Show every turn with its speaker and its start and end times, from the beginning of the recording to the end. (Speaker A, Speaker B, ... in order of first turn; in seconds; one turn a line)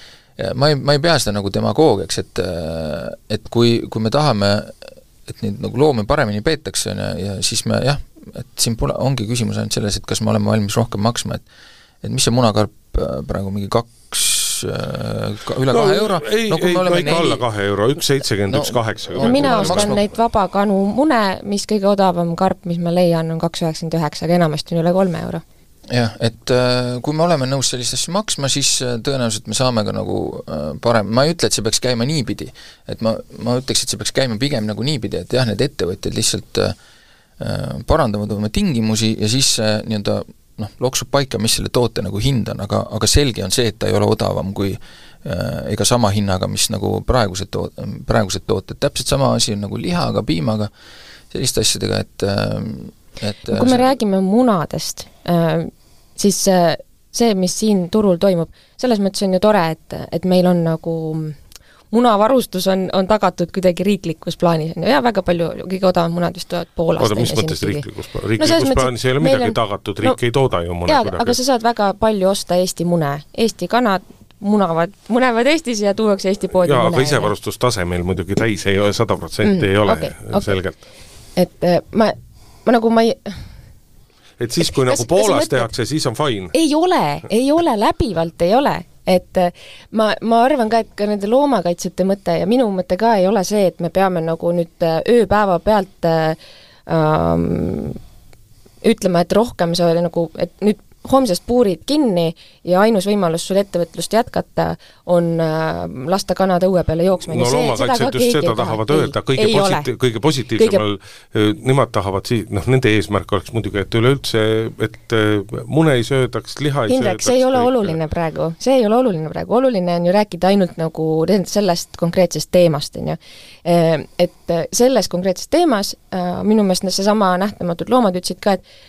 Speaker A: 0.4-11.4
Speaker A: 12.0-17.4
Speaker B: 15.7-20.0
Speaker A: 18.5-20.0
Speaker C: 19.2-25.4
Speaker A: 25.9-36.7
Speaker A: 37.4-50.7
Speaker A: 51.3-53.9
Speaker C: 53.5-61.4
Speaker C: 61.9-67.8
Speaker B: 67.0-71.4
Speaker C: 68.4-70.2
Speaker C: 70.9-77.3
Speaker B: 76.6-80.8
Speaker C: 79.4-80.5
Speaker C: 81.3-83.4
Speaker B: 84.4-86.5
Speaker C: 84.6-85.7
Speaker C: 86.5-98.0
Speaker C: 98.8-109.9
Speaker B: 107.3-118.0
Speaker C: 110.5-110.8
Speaker C: 116.9-128.6